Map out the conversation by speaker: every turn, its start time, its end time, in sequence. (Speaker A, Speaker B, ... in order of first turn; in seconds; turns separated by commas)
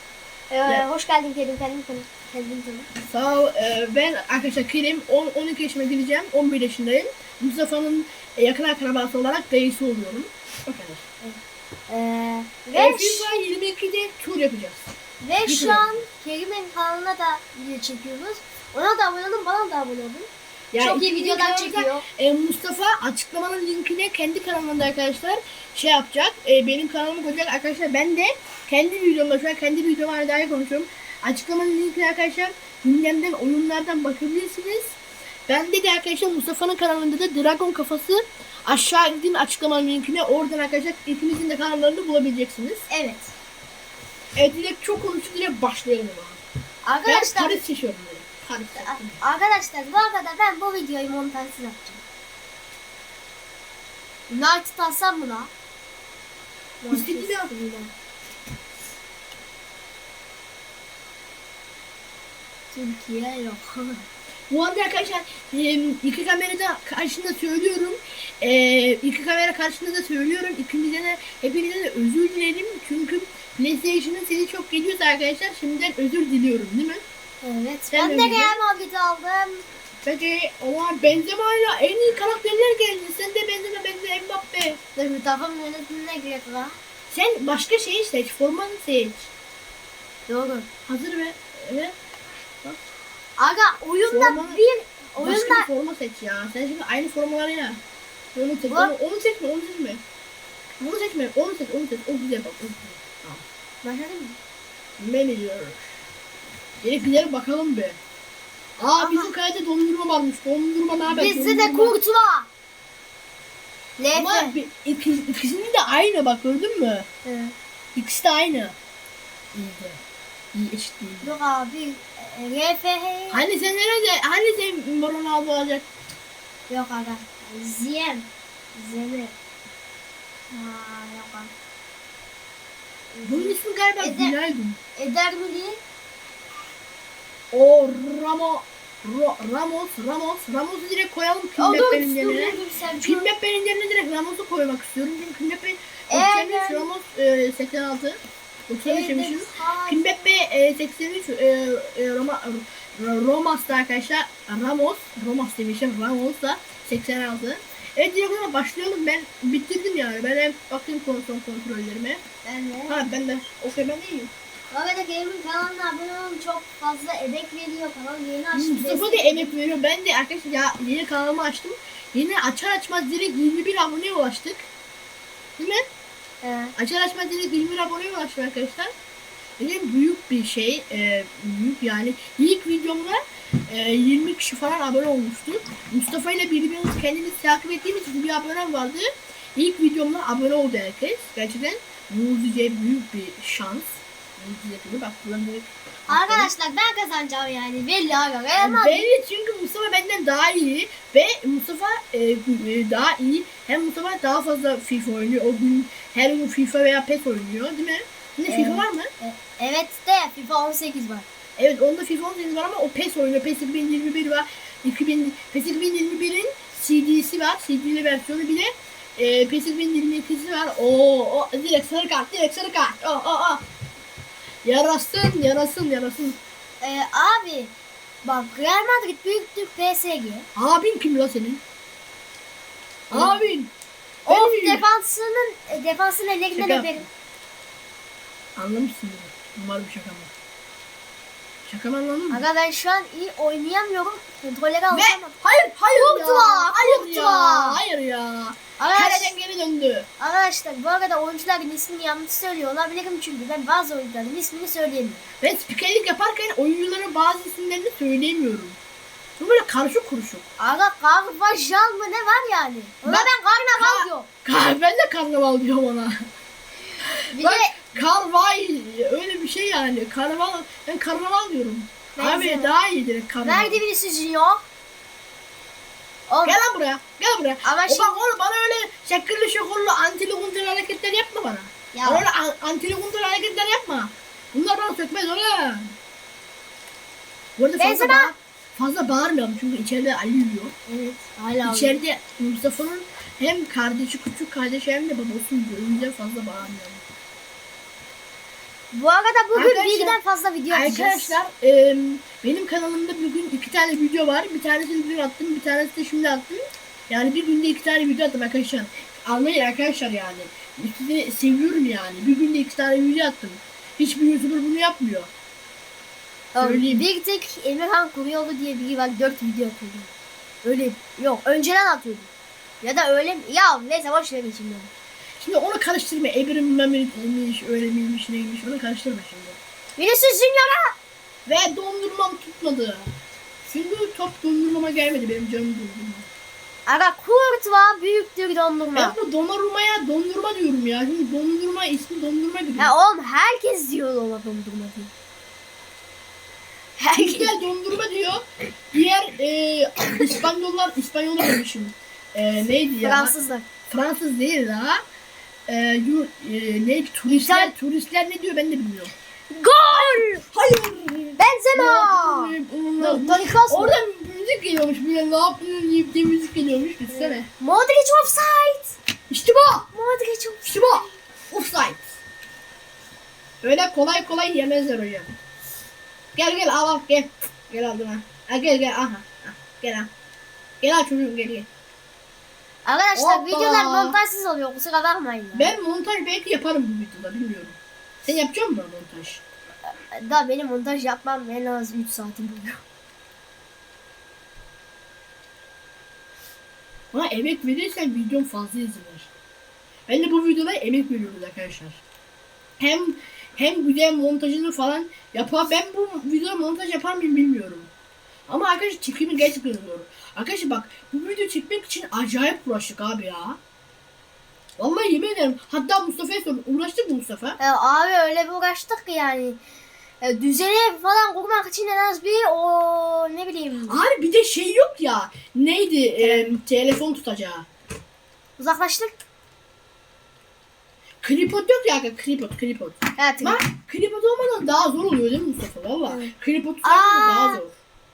Speaker A: 0.5-2.9, Speaker B: 3.0-11.0, Speaker A: 11.2-13.3, Speaker B: 12.7-14.9, Speaker A: 15.2-22.0, Speaker B: 15.4-15.9, Speaker B: 20.7-42.8, Speaker A: 42.9-43.3, Speaker B: 44.4-46.4, Speaker A: 46.8-47.6, Speaker B: 47.1-49.2, Speaker A: 48.8-52.0, Speaker A: 54.3-55.5, Speaker A: 56.8-57.9, Speaker B: 56.9-57.5, Speaker A: 62.7-64.1, Speaker B: 64.5-77.0, Speaker A: 77.4-79.6, Speaker B: 77.9-78.6, Speaker B: 80.0-84.8, Speaker A: 85.0-86.8, Speaker B: 87.1-89.3, Speaker A: 90.3-90.7, Speaker B: 90.9-91.9, Speaker A: 93.4-95.7, Speaker B: 94.1-94.6, Speaker B: 95.2-97.8, Speaker B: 98.3-100.0, Speaker A: 98.7-98.9, Speaker B: 100.8-103.4, Speaker A: 103.8-104.4, Speaker B: 105.0-105.9, Speaker B: 106.8-108.0, Speaker B: 108.8-112.0, Speaker A: 109.0-109.3, Speaker A: 111.1-112.5, Speaker A: 114.0-114.5, Speaker B: 114.1-117.1, Speaker A: 117.2-117.5, Speaker B: 118.0-118.8, Speaker B: 119.5-120.0, Speaker B: 120.5-121.3, Speaker A: 121.2-123.4, Speaker B: 123.3-125.8, Speaker A: 126.7-129.3, Speaker A: 130.5-131.5, Speaker A: 133.1-134.3, Speaker B: 133.2-134.8, Speaker A: 134.9-135.8, Speaker B: 137.5-162.2, Speaker A: 141.6-143.3, Speaker A: 146.1-146.9, Speaker A: 148.8-150.3, Speaker A: 162.4-163.0, Speaker B: 162.9-164.3, Speaker A: 164.7-169.5, Speaker B: 168.5-174.7, Speaker B: 175.6-175.8, Speaker A: 176.4-176.7, Speaker B: 176.8-178.9, Speaker B: 179.6-196.5, Speaker A: 196.1-199.0, Speaker B: 198.6-209.1, Speaker A: 208.5-211.3, Speaker B: 211.6-223.6, Speaker B: 224.6-226.4, Speaker A: 226.8-227.7, Speaker A: 228.2-230.5, Speaker B: 230.5-231.6, Speaker B: 233.1-233.7, Speaker A: 233.1-233.4, Speaker B: 234.2-234.8, Speaker A: 234.2-237.1, Speaker B: 236.5-237.1, Speaker B: 238.6-240.3, Speaker B: 241.7-242.4, Speaker A: 242.3-245.3, Speaker B: 244.9-250.1, Speaker A: 245.9-247.8, Speaker A: 248.8-249.3, Speaker A: 250.2-255.2, Speaker B: 255.4-258.8, Speaker B: 259.4-260.4, Speaker A: 260.6-264.3, Speaker B: 263.1-266.3, Speaker B: 267.0-273.8, Speaker A: 267.3-267.7, Speaker A: 272.1-272.7, Speaker A: 273.4-274.6, Speaker A: 276.3-276.6, Speaker B: 276.4-285.9, Speaker A: 277.6-278.2, Speaker A: 281.9-282.2, Speaker B: 287.6-290.7, Speaker A: 287.8-288.3, Speaker A: 290.9-292.0, Speaker B: 291.6-297.0, Speaker A: 298.9-301.4, Speaker B: 299.5-300.2, Speaker B: 300.7-315.3, Speaker A: 316.5-320.1, Speaker B: 316.6-317.0, Speaker A: 320.6-322.3, Speaker A: 322.8-324.9, Speaker B: 325.4-329.6, Speaker A: 330.0-330.9, Speaker B: 331.4-333.1, Speaker B: 333.7-336.3, Speaker A: 336.9-339.2, Speaker B: 338.9-342.9, Speaker A: 342.8-345.1, Speaker A: 347.0-347.5, Speaker B: 347.1-353.3, Speaker A: 353.0-353.6, Speaker B: 353.9-355.0, Speaker B: 355.7-359.1, Speaker A: 357.3-357.7, Speaker A: 359.5-360.4, Speaker B: 359.9-367.5, Speaker A: 361.4-364.0, Speaker A: 367.1-369.0, Speaker B: 369.3-369.9, Speaker A: 369.9-371.0, Speaker B: 370.6-372.1, Speaker B: 373.6-375.3, Speaker B: 376.3-380.1, Speaker B: 380.8-381.7, Speaker A: 382.8-385.7, Speaker B: 383.1-384.2, Speaker B: 385.5-389.4, Speaker A: 389.9-392.8, Speaker B: 397.1-399.3, Speaker B: 400.1-402.0, Speaker B: 402.8-407.9, Speaker B: 408.5-413.6, Speaker B: 414.8-417.6, Speaker A: 417.6-419.6, Speaker A: 420.2-424.0, Speaker B: 423.9-427.7, Speaker A: 426.2-426.5, Speaker A: 428.6-429.1, Speaker B: 431.2-437.7, Speaker A: 433.2-433.6, Speaker A: 436.1-437.6